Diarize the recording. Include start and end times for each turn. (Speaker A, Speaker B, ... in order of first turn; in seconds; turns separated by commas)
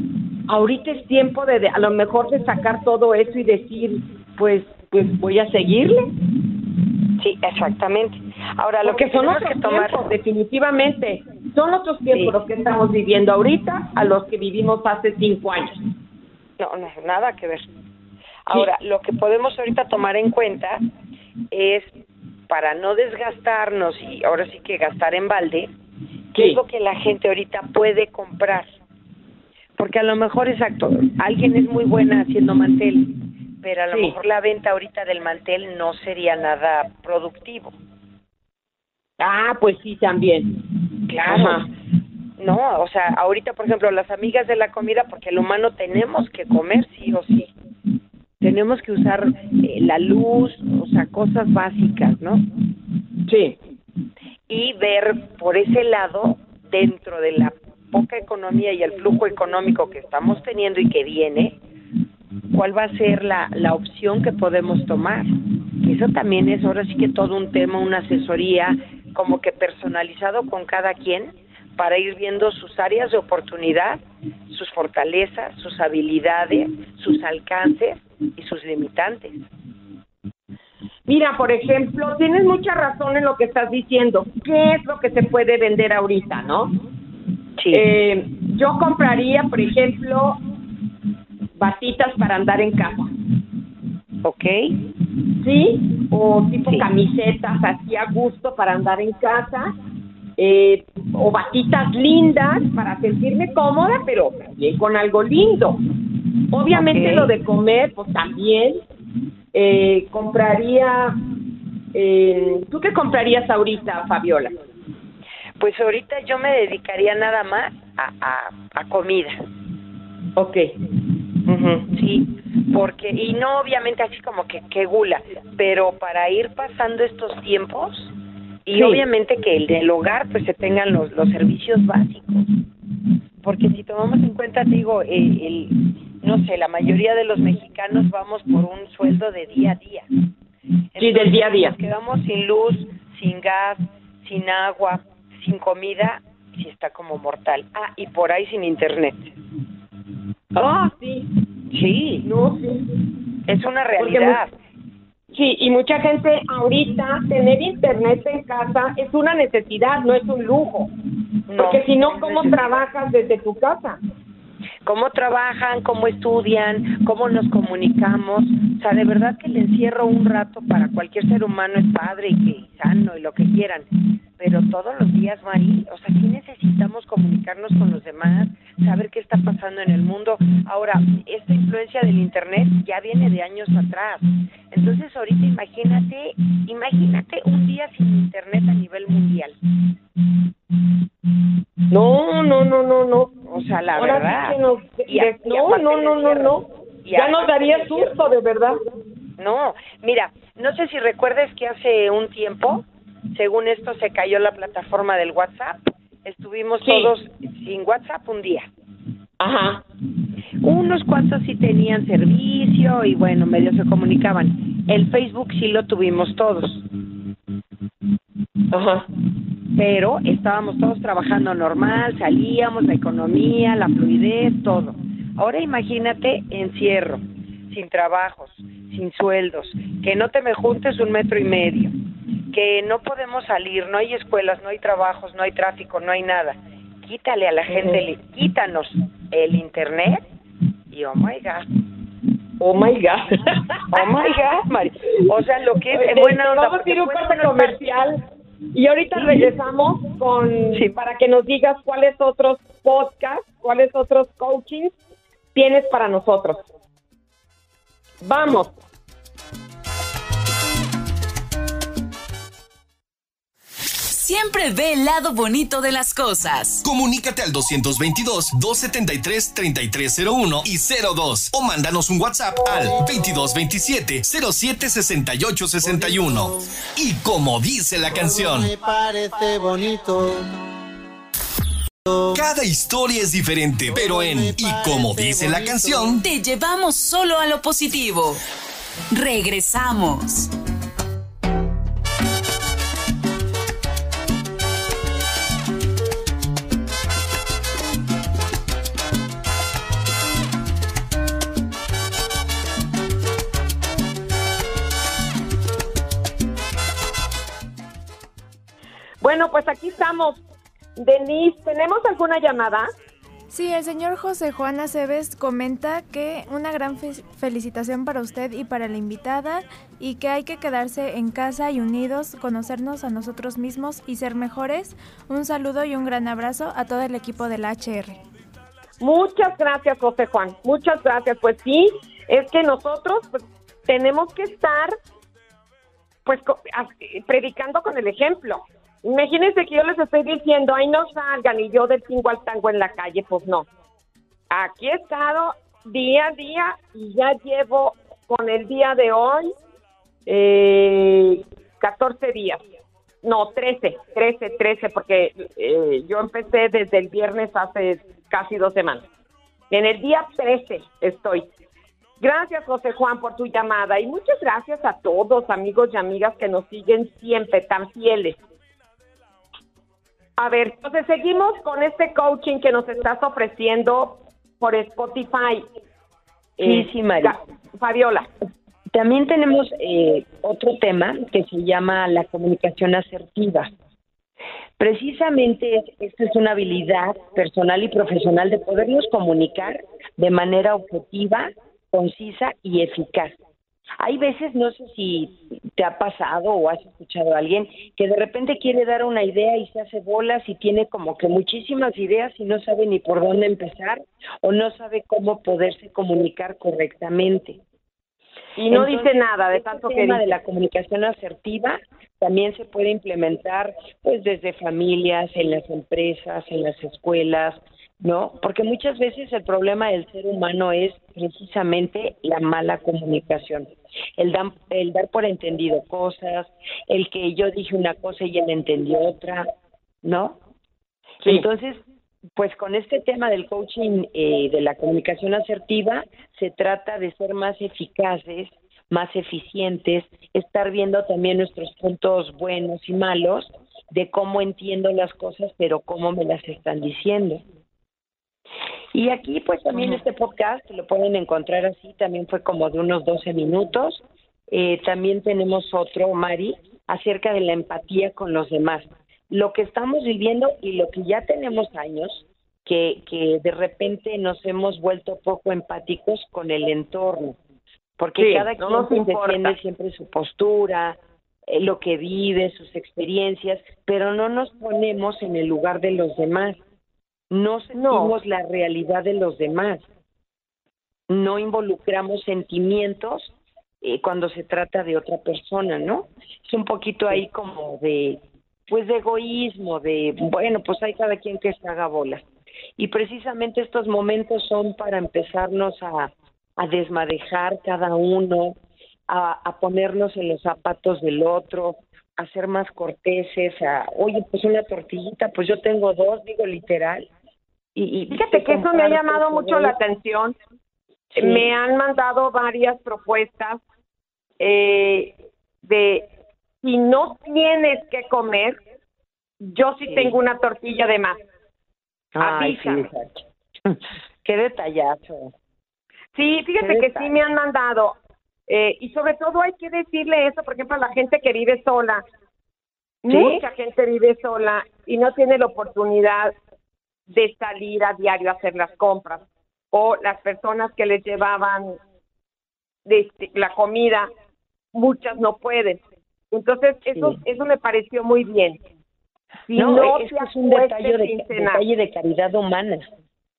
Speaker A: 0.5-6.1, Speaker B: 7.2-10.1, Speaker A: 8.8-15.8, Speaker B: 16.6-17.6, Speaker B: 18.4-20.8, Speaker B: 21.5-21.9, Speaker B: 22.5-25.7, Speaker A: 26.3-26.6, Speaker B: 26.3-28.7, Speaker B: 29.8-37.8, Speaker A: 39.2-40.5, Speaker B: 41.1-41.6, Speaker A: 41.2-41.7, Speaker B: 42.4-47.5, Speaker B: 48.4-52.4, Speaker A: 53.3-53.6, Speaker B: 54.5-61.6, Speaker B: 62.5-79.4, Speaker A: 81.1-86.7, Speaker B: 87.6-87.9, Speaker A: 87.7-90.4, Speaker A: 91.6-93.1, Speaker B: 94.2-94.6, Speaker A: 95.4-99.7, Speaker A: 100.4-105.8, Speaker A: 106.5-108.8, Speaker B: 106.7-107.3, Speaker A: 109.5-111.2, Speaker A: 111.9-114.5, Speaker B: 115.6-119.4, Speaker A: 120.3-120.7, Speaker A: 121.5-121.8, Speaker B: 121.9-128.1, Speaker B: 128.7-132.5, Speaker A: 128.7-129.0, Speaker B: 133.4-140.1, Speaker B: 140.9-149.3, Speaker A: 141.0-141.8, Speaker A: 150.5-151.3, Speaker B: 151.7-152.3, Speaker A: 152.2-152.8, Speaker B: 153.5-154.5, Speaker A: 154.0-154.4, Speaker A: 155.3-160.9, Speaker B: 161.5-162.8, Speaker A: 161.6-164.0, Speaker B: 164.8-189.6, Speaker A: 191.9-193.3, Speaker B: 193.4-198.2, Speaker A: 193.9-198.8, Speaker B: 199.4-208.7, Speaker A: 206.8-207.1, Speaker A: 209.4-209.8, Speaker B: 210.6-216.8, Speaker A: 218.7-219.1, Speaker B: 219.7-231.9, Speaker B: 232.5-240.2, Speaker A: 237.7-238.0, Speaker B: 240.9-241.7, Speaker A: 242.6-244.0, Speaker B: 243.9-247.8, Speaker A: 245.9-248.2, Speaker A: 248.7-254.9, Speaker B: 249.1-249.5, Speaker A: 255.5-256.6, Speaker A: 258.2-258.7, Speaker C: 264.1-266.8, Speaker D: 266.8-278.7, Speaker E: 275.8-276.6, Speaker E: 278.1-280.5, Speaker E: 282.1-282.4, Speaker D: 282.3-286.2, Speaker E: 283.9-286.2, Speaker C: 286.2-288.4, Speaker C: 289.1-290.5, Speaker A: 309.2-310.4, Speaker A: 311.0-312.9, Speaker F: 313.5-328.2, Speaker A: 329.0-333.3, Speaker A: 333.9-334.9, Speaker A: 336.2-343.6, Speaker A: 344.5-349.5, Speaker A: 350.3-352.6, Speaker A: 353.2-359.1, Speaker A: 359.7-361.5, Speaker A: 362.2-368.4, Speaker A: 370.4-375.6, Speaker A: 376.6-378.3, Speaker B: 376.6-377.4, Speaker B: 378.9-383.7, Speaker B: 384.8-393.4, Speaker B: 394.0-407.6, Speaker A: 408.6-410.4, Speaker B: 408.7-429.5, Speaker B: 430.0-430.4, Speaker B: 431.2-431.8, Speaker B: 432.4-447.4, Speaker B: 448.9-467.4, Speaker B: 468.0-476.6, Speaker A: 468.2-469.5, Speaker B: 477.3-479.8, Speaker A: 477.7-478.1, Speaker B: 481.1-492.3, Speaker B: 492.8-507.1, Speaker B: 507.7-509.7, Speaker A: 508.1-510.4, Speaker A: 511.1-513.6, Speaker B: 511.1-511.5, Speaker A: 514.4-516.1, Speaker A: 516.6-518.6, Speaker A: 519.4-521.2, Speaker B: 519.9-520.1, Speaker B: 522.1-525.3, Speaker A: 522.2-522.9, Speaker A: 526.1-528.0, Speaker B: 526.6-527.1, Speaker A: 528.5-532.0, Speaker A: 533.0-536.3, Speaker B: 533.1-533.4, Speaker A: 537.1-541.8, Speaker A: 542.9-544.1, Speaker A: 544.7-545.8, Speaker A: 546.3-548.6, Speaker B: 546.9-547.2, Speaker A: 549.5-551.6, Speaker B: 549.5-552.9